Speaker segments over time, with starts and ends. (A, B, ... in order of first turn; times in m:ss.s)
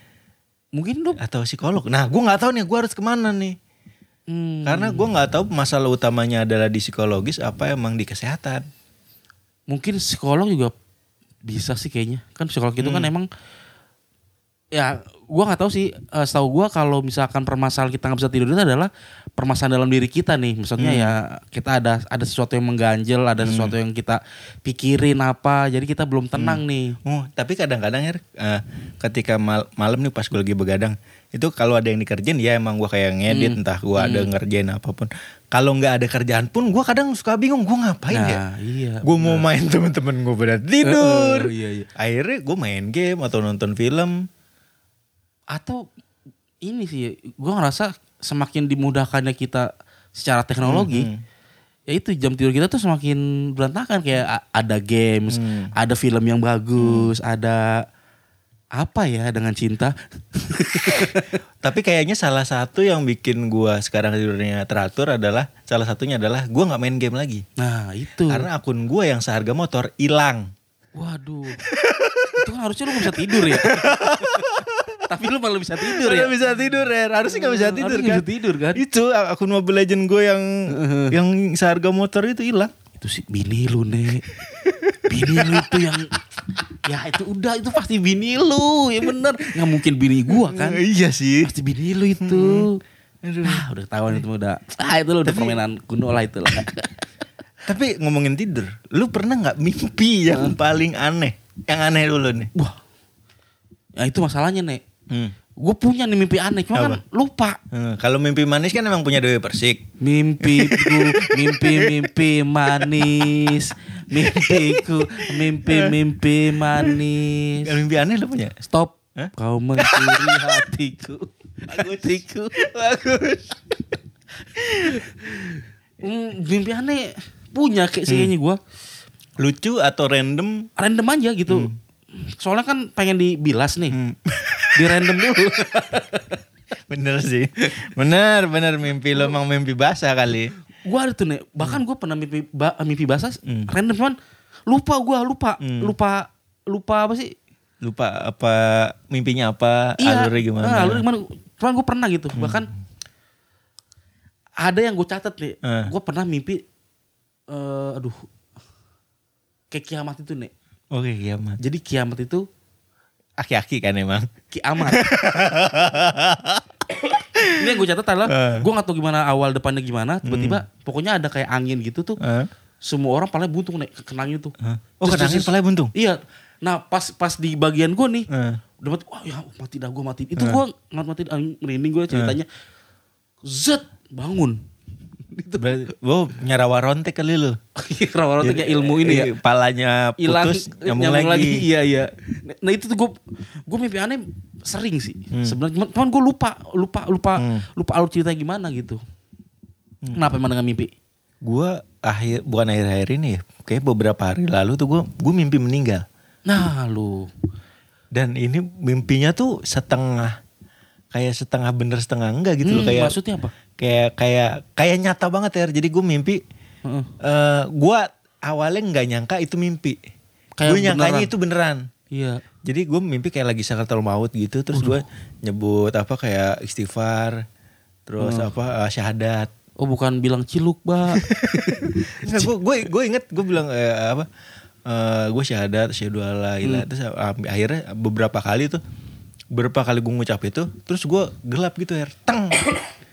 0:00.8-0:01.2 A
0:01.2-0:03.6 B
0:04.3-0:05.0 A
0:04.7-0:08.6 B
0:09.7-0:10.7 A
0:11.5-0:13.3 A
0:12.8-0:13.1 B
0:14.7-0:27.0 A
0:20.8-0:21.1 B
0:23.4-0:23.8 B
0:26.4-0:38.4 B
0:33.3-0:34.3 A
0:38.1-0:39.4 A
0:39.0-0:44.3 B
0:40.8-0:41.9 A
0:45.5-0:45.8 A
0:46.6-0:51.1 A
0:50.6-0:51.2 B
0:51.9-0:57.7 A
0:55.3-0:55.7 B
0:56.8-0:57.1 B
0:58.8-1:01.4 A
1:01.6-1:07.4 B
1:07.6-1:08.5 A
1:08.3-1:10.5 B
1:11.0-1:11.6 A
1:11.6-1:15.2 B
1:12.4-1:14.6 A
1:15.1-1:16.3 A
1:15.8-1:20.5 B
1:17.3-1:18.8 A
1:20.7-1:21.1 A
1:21.1-1:22.7 B
1:23.0-1:24.3 A
1:24.4-1:25.9 B
1:25.0-1:26.2 A
1:26.8-1:30.8 A
1:30.3-1:31.5 B
1:31.4-1:32.8 A
1:32.2-1:32.7 B
1:33.2-1:33.6 B
1:33.4-1:37.0 A
1:35.2-1:35.6 B
1:37.7-1:42.5 B
1:44.0-1:44.8 A
1:45.6-1:47.6 A
1:46.7-1:47.0 B
1:47.7-1:49.8 B
1:50.0-1:57.7 A
1:50.4-1:52.2 B
1:52.7-1:53.4 B
1:54.1-1:55.9 B
1:57.6-1:58.6 B
1:58.6-2:02.6 A
1:59.2-2:00.6 B
2:02.6-2:03.7 B
2:04.6-2:05.1 B
2:04.9-2:08.6 A
2:09.4-2:10.7 B
2:10.8-2:14.0 A
2:11.5-2:11.7 B
2:13.9-2:15.6 B
2:14.8-2:16.4 A
2:16.9-2:20.5 B
2:20.8-2:24.2 A
2:24.7-2:27.4 A
2:25.6-2:25.9 B
2:27.8-2:31.0 B
2:30.0-2:32.7 A
2:32.4-2:32.7 B
2:34.6-2:36.6 A
2:35.6-2:35.9 B
2:37.5-2:38.2 A
2:39.7-2:40.5 A
2:40.9-2:41.6 B
2:41.6-2:42.5 A
2:43.4-2:44.3 B
2:44.5-2:45.0 A
2:44.8-2:47.7 B
2:47.6-2:52.2 A
2:48.3-2:48.7 B
2:50.2-2:50.6 B
2:52.2-2:52.5 B
2:52.8-2:58.3 A
2:54.6-2:55.9 B
2:58.3-2:58.6 B
2:58.8-3:02.5 A
3:03.5-3:04.6 A
3:05.3-3:05.8 A
3:05.6-3:07.6 B
3:07.8-3:09.3 A
3:08.4-3:11.6 B
3:10.2-3:19.0 A
3:15.3-3:15.6 B
3:17.4-3:17.6 B
3:20.1-3:20.9 A
3:21.4-3:26.0 B
3:26.5-3:27.3 A
3:28.2-3:30.4 B
3:31.1-3:33.2 B
3:32.6-3:33.5 A
3:33.8-3:36.4 B
3:36.9-3:37.1 A
3:37.2-3:40.0 B
3:40.6-3:41.3 A
3:40.7-3:41.9 B
3:42.1-3:42.4 A
3:42.6-3:47.4 B
3:44.8-3:45.0 A
3:48.1-3:49.5 B
3:48.2-3:48.5 A
3:49.8-3:52.5 A
3:51.2-3:54.3 B
3:54.9-3:58.8 B
3:59.5-4:02.7 B